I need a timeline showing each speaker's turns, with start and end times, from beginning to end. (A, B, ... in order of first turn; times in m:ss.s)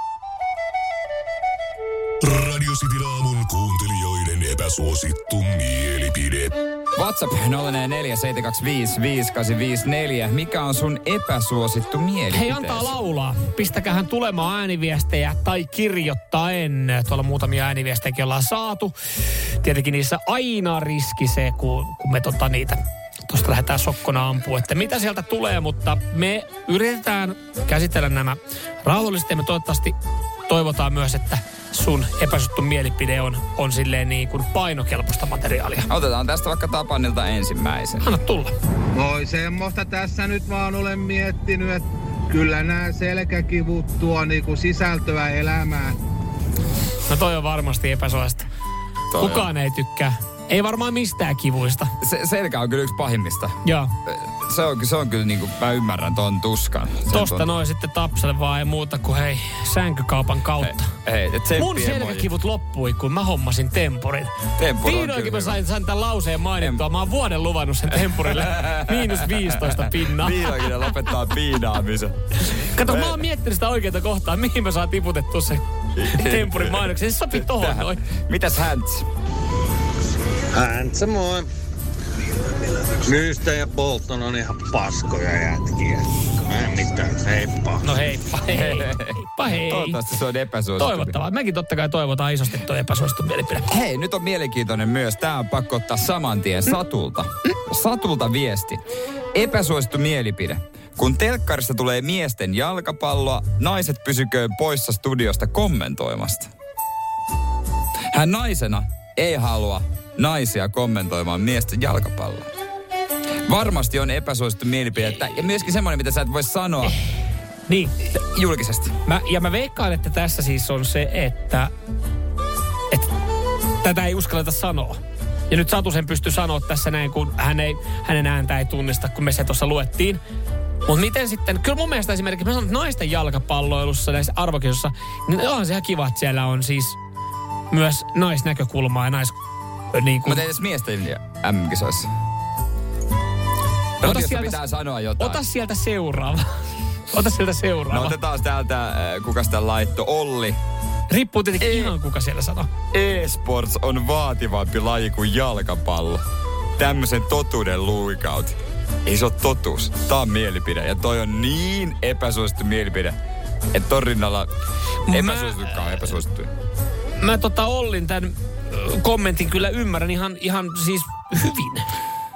0:02.2-0:06.6 A
0:07.0-0:13.0 B
0:12.3-0:18.9 C
0:19.6-0:30.0 C
0:30.5-0:35.9 C
0:35.9-0:38.1 B
0:38.0-0:38.5 C
0:39.0-0:46.0 D
0:47.1-0:48.5 C
0:49.1-0:49.5 B
0:49.2-0:51.9 C
0:52.0-0:53.6 B
0:53.6-0:53.9 C
0:54.1-0:57.5 B
0:57.1-1:00.9 C
1:00.6-1:02.3 B
1:01.6-1:04.3 C
1:04.6-1:05.6 B
1:04.8-1:10.8 C
1:08.1-1:12.2 B
1:12.5-1:18.0 C
1:12.8-1:13.2 B
1:16.0-1:19.1 B
1:20.5-1:21.5 E
1:23.0-1:28.0 E
1:27.8-1:30.0 C
1:28.4-1:31.2 B
1:30.8-1:33.7 C
1:33.7-1:38.8 B
1:39.3-1:46.5 B
1:48.1-1:52.5 B
1:53.5-1:57.0 B
1:57.7-1:58.0 C
1:58.1-1:59.0 B
1:59.0-2:01.7 C
2:03.8-2:10.2 C
2:10.9-2:17.0 C
2:17.7-2:19.4 C
2:19.9-2:20.4 C
2:20.2-2:22.1 B
2:24.0-2:25.4 B
2:24.0-2:24.6 C
2:25.2-2:26.5 C
2:27.1-2:28.2 C
2:27.9-2:30.6 B
2:31.1-2:32.7 C
2:31.6-2:32.0 B
2:32.9-2:36.2 B
2:36.8-2:43.2 B
2:43.7-2:44.5 B
2:45.1-2:46.1 C
2:45.1-2:46.5 B
2:47.2-2:51.9 C